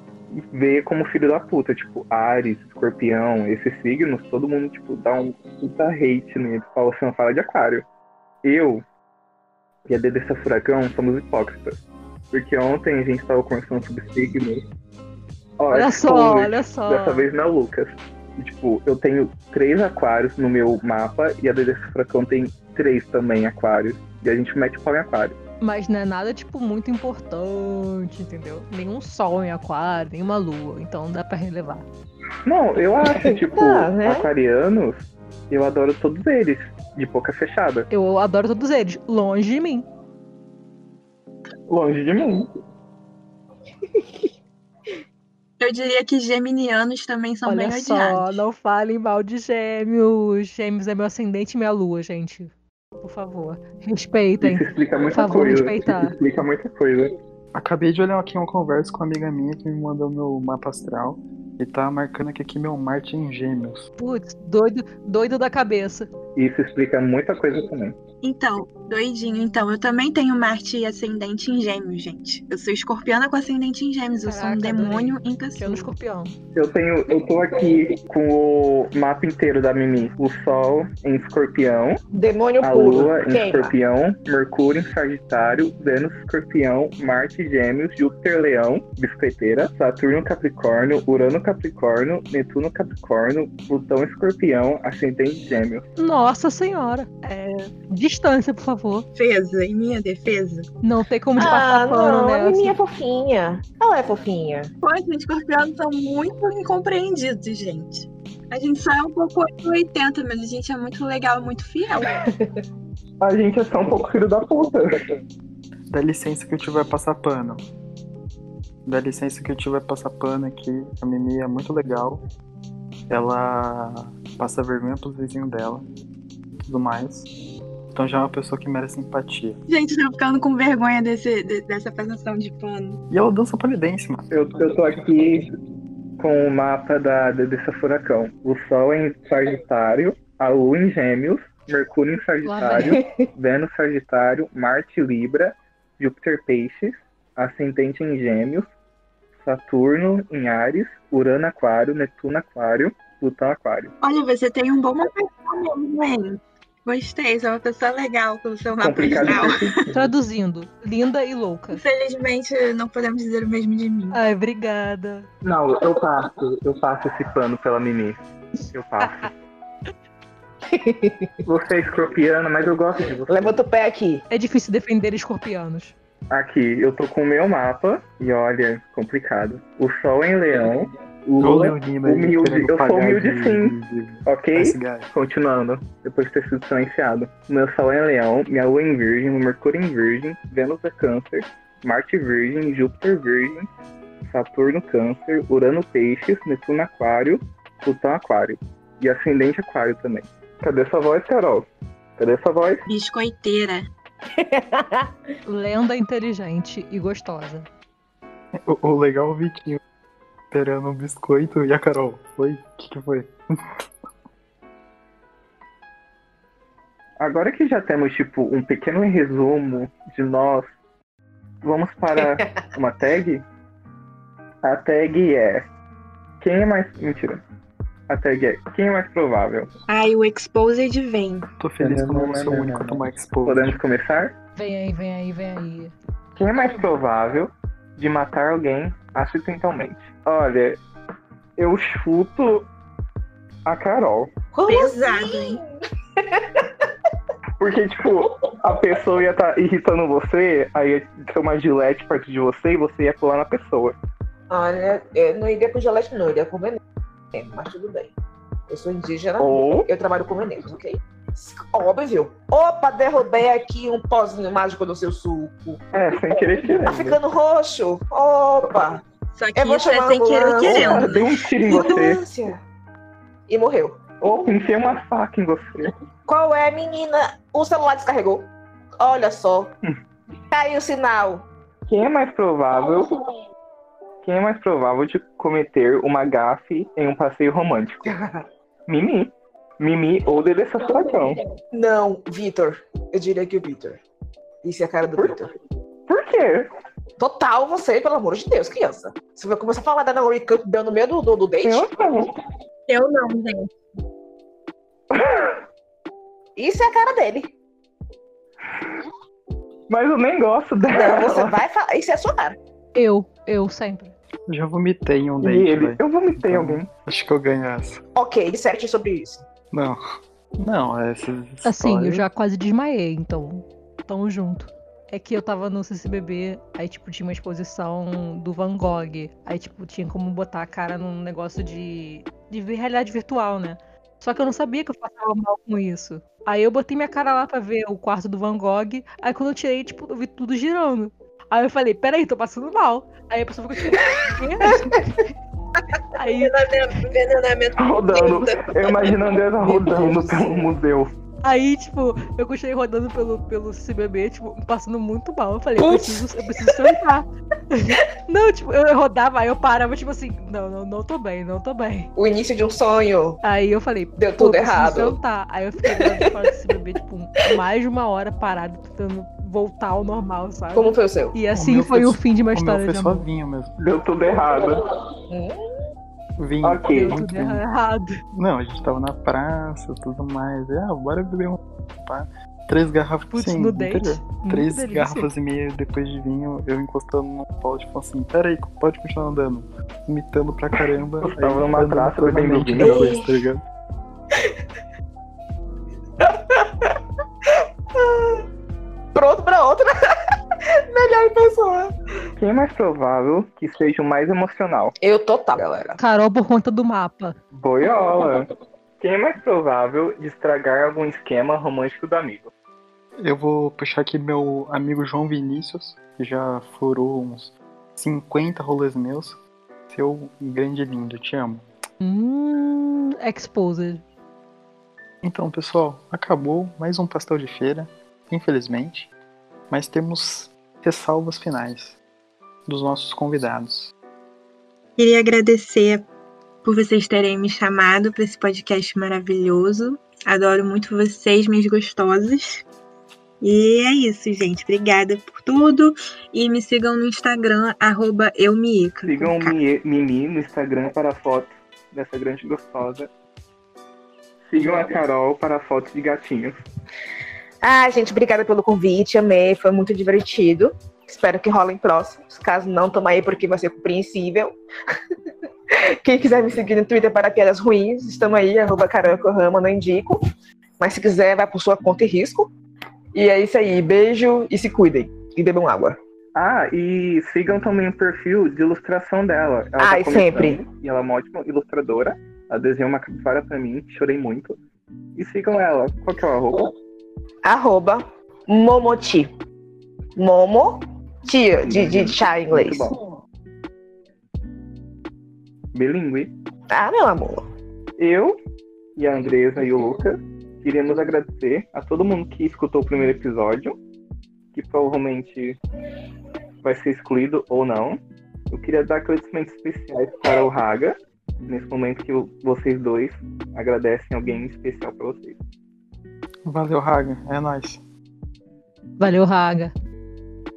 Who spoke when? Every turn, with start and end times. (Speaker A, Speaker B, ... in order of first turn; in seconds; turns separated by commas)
Speaker A: 0.4-7.8, Speaker A: 8.4-8.8, Speaker A: 9.9-11.8, Speaker A: 12.3-14.6, Speaker A: 15.6-25.4, Speaker B: 15.7-17.2, Speaker B: 25.6-31.9, Speaker A: 32.5-37.9, Speaker C: 33.0-34.3, Speaker B: 37.9-39.8, Speaker A: 41.7-42.5, Speaker C: 43.9-44.2, Speaker D: 45.6-48.4, Speaker B: 47.5-56.1, Speaker A: 54.4-57.1, Speaker E: 57.5-63.9, Speaker B: 64.0-66.1, Speaker A: 66.3-68.0, Speaker D: 68.2-75.9, Speaker B: 74.2-76.3, Speaker A: 76.5-82.0, Speaker C: 82.1-83.7, Speaker A: 82.6-95.8, Speaker B: 96.0-99.0, Speaker D: 99.1-100.7, Speaker B: 100.8-102.8, Speaker C: 101.4-104.7, Speaker D: 104.8-112.1, Speaker C: 112.1-112.5, Speaker A: 113.2-114.9, Speaker E: 115.9-117.6, Speaker E: 118.8-122.2, Speaker E: 123.1-125.8, Speaker E: 126.6-127.3, Speaker E: 127.9-129.6, Speaker D: 129.7-133.0, Speaker E: 133.1-134.2, Speaker A: 134.3-135.4, Speaker A: 136.2-148.7, Speaker B: 142.4-143.0, Speaker C: 142.8-143.2, Speaker A: 149.4-153.9, Speaker D: 154.0-159.8, Speaker A: 158.8-160.0, Speaker B: 159.9-161.8, Speaker D: 161.7-164.2, Speaker B: 164.1-165.3, Speaker A: 165.4-168.2, Speaker A: 168.7-169.3, Speaker B: 169.0-169.3, Speaker C: 170.7-171.3, Speaker A: 171.4-173.6, Speaker C: 173.3-174.2, Speaker B: 174.3-175.9, Speaker A: 176.3-183.7, Speaker E: 181.4-185.1, Speaker A: 184.2-193.7, Speaker A: 194.3-202.8, Speaker D: 202.8-203.9, Speaker C: 204.4-205.1, Speaker B: 205.5-207.7, Speaker E: 208.6-209.8, Speaker E: 210.5-213.8, Speaker A: 217.2-220.7, Speaker A: 221.6-223.4, Speaker C: 222.2-222.5, Speaker A: 224.6-225.7, Speaker A: 226.4-227.4, Speaker A: 228.1-229.7, Speaker D: 229.9-231.5, Speaker E: 231.6-233.8, Speaker A: 231.8-234.3, Speaker B: 234.6-235.9, Speaker A: 236.3-240.8, Speaker A: 241.6-242.7, Speaker A: 243.7-244.3, Speaker C: 244.5-245.7, Speaker D: 244.7-245.6, Speaker C: 246.2-246.6, Speaker A: 247.6-254.0, Speaker C: 254.5-256.8, Speaker C: 257.3-258.1, Speaker C: 258.7-265.8, Speaker A: 259.4-259.9, Speaker A: 265.9-267.2, Speaker C: 266.8-269.0, Speaker D: 269.3-271.2, Speaker C: 269.5-272.6, Speaker A: 270.6-272.2, Speaker C: 273.5-274.0, Speaker A: 274.2-275.9, Speaker C: 276.3-278.5, Speaker C: 279.0-279.7, Speaker C: 280.5-281.4, Speaker A: 281.9-283.1, Speaker A: 284.2-288.1, Speaker C: 288.1-288.4, Speaker A: 288.9-291.4, Speaker C: 291.7-294.0, Speaker C: 294.6-295.5, Speaker A: 295.2-295.5, Speaker A: 296.1-296.7, Speaker C: 297.2-301.9, Speaker A: 301.6-302.3, Speaker D: 302.9-303.7, Speaker A: 305.1-305.6, Speaker C: 306.6-307.5, Speaker A: 308.7-309.0, Speaker A: 309.9-311.6, Speaker C: 310.9-312.6, Speaker B: 312.9-314.1, Speaker E: 314.5-318.0, Speaker A: 315.4-316.9, Speaker C: 318.1-319.4, Speaker E: 319.7-320.0, Speaker E: 320.6-322.2, Speaker B: 321.6-345.0, Speaker C: 344.0-345.0, Speaker B: 346.1-346.6, Speaker D: 346.3-349.1, Speaker A: 347.8-351.1, Speaker C: 349.6-350.6, Speaker B: 351.4-362.1, Speaker C: 355.8-356.8, Speaker C: 362.1-363.4, Speaker B: 363.4-373.3, Speaker C: 364.2-365.2, Speaker C: 370.7-371.3, Speaker E: 371.5-373.7, Speaker A: 373.8-374.8, Speaker C: 375.3-375.6, Speaker E: 376.4-377.6, Speaker A: 376.6-377.2, Speaker B: 376.9-378.2, Speaker E: 378.3-393.6, Speaker B: 383.3-385.3, Speaker A: 391.2-393.1, Speaker C: 392.8-393.3, Speaker C: 396.2-396.9, Speaker C: 397.9-398.4, Speaker C: 399.1-399.9, Speaker C: 400.9-401.9, Speaker A: 402.4-404.9, Speaker C: 405.0-406.0, Speaker B: 406.0-407.4, Speaker A: 407.5-408.5, Speaker A: 409.0-412.5, Speaker E: 413.2-419.4, Speaker E: 419.9-421.6, Speaker B: 422.0-424.0, Speaker E: 425.2-429.1, Speaker E: 429.7-432.0, Speaker E: 432.6-433.9, Speaker D: 435.0-436.1, Speaker D: 436.6-442.6, Speaker D: 443.4-449.6, Speaker A: 449.0-453.1, Speaker A: 454.5-456.6, Speaker C: 457.6-464.5, Speaker C: 465.7-470.2, Speaker C: 470.8-472.5, Speaker C: 473.1-476.0, Speaker A: 476.3-484.6, Speaker C: 479.8-480.6, Speaker A: 485.1-486.6, Speaker C: 487.4-489.3, Speaker C: 490.1-492.9, Speaker A: 491.6-493.1, Speaker A: 495.7-496.3, Speaker C: 496.7-497.4, Speaker A: 498.0-498.4, Speaker A: 499.0-503.8, Speaker A: 504.5-505.6, Speaker A: 506.6-508.0, Speaker A: 508.5-515.4, Speaker E: 516.4-517.8, Speaker B: 519.0-519.7